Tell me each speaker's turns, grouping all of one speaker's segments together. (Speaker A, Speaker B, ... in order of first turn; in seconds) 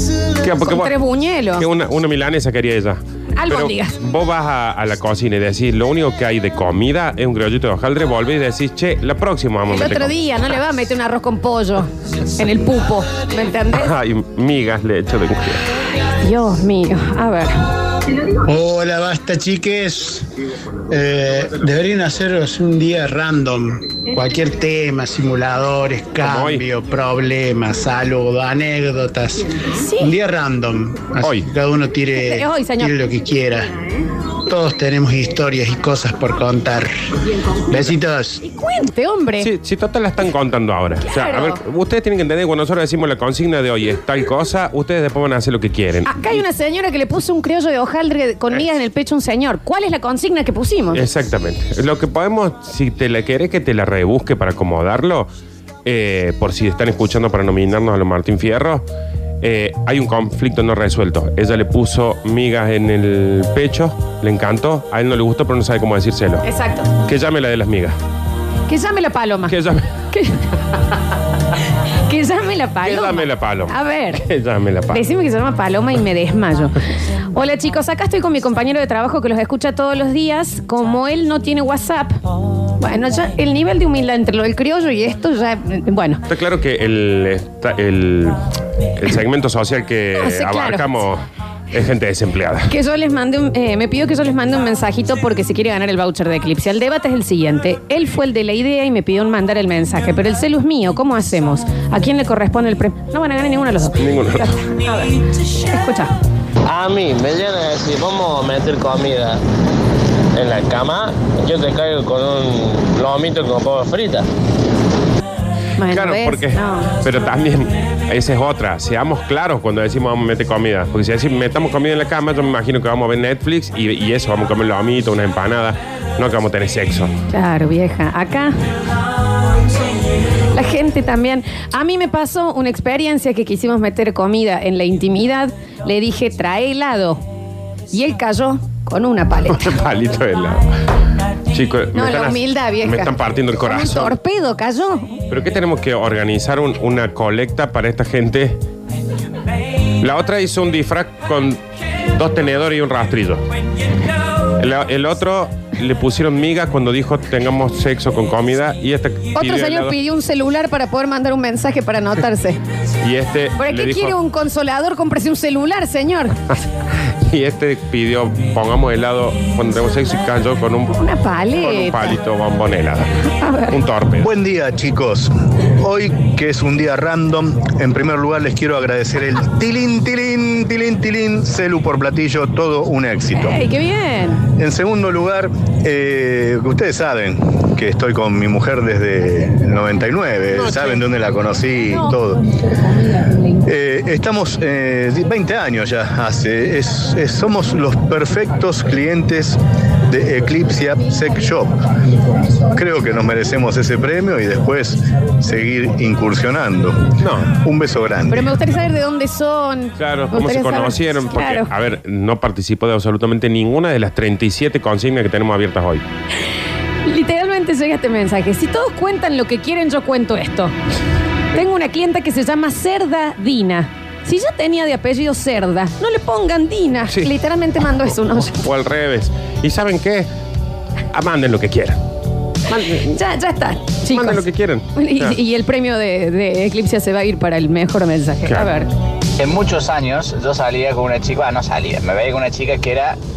Speaker A: 0.4-0.9, 1.6-10.2, 13.7-15.6, 26.2-26.6, 31.2-31.5, 39.4-46.5, 50.9-55.3, 55.9-58.9, 59.4-66.5, 67.0-68.0, 69.5-69.9, 72.8-75.0, 86.3-88.4, 89.0-92.7, 104.0-104.5, 115.9-127.1, 139.5-140.7, 141.5-144.1, 145.3-148.6, 150.0-151.6, 152.2-153.4, 154.6-159.9, 163.0-164.1, 167.2-171.0, 171.6-174.3, 190.5-191.1, 207.2-207.5, 210.0-216.0, 228.4-230.3, 231.1-232.0, 232.7-233.2, 234.1-235.4
Speaker B: 0.6-1.6, 3.4-4.0, 9.7-13.9, 16.2-17.7, 29.8-30.1, 32.2-32.9, 38.4-39.5, 41.0-41.6, 46.1-51.0, 66.4-66.9, 68.7-69.5, 70.1-70.5, 72.0-74.2, 74.9-76.8, 77.3-82.2, 82.8-86.2, 90.2-90.8, 92.7-106.1, 115.8-117.0, 127.3-128.5, 130.5-137.2, 137.9-139.7, 141.9-145.2, 159.4-162.6, 163.6-166.4, 170.9-172.2, 173.3-173.8, 183.3-184.5, 192.8-193.6, 208.3-211.7, 217.1-220.8, 221.6-228.6, 233.1-234.4, 235.0-238.9
Speaker C: 18.4-20.3, 20.9-33.7, 34.5-36.9, 37.7-38.4
Speaker D: 106.7-109.4, 110.3-114.3
Speaker E: 174.2-183.6, 184.6-192.4, 193.7-201.8, 202.5-208.5
Speaker F: 239.4-243.2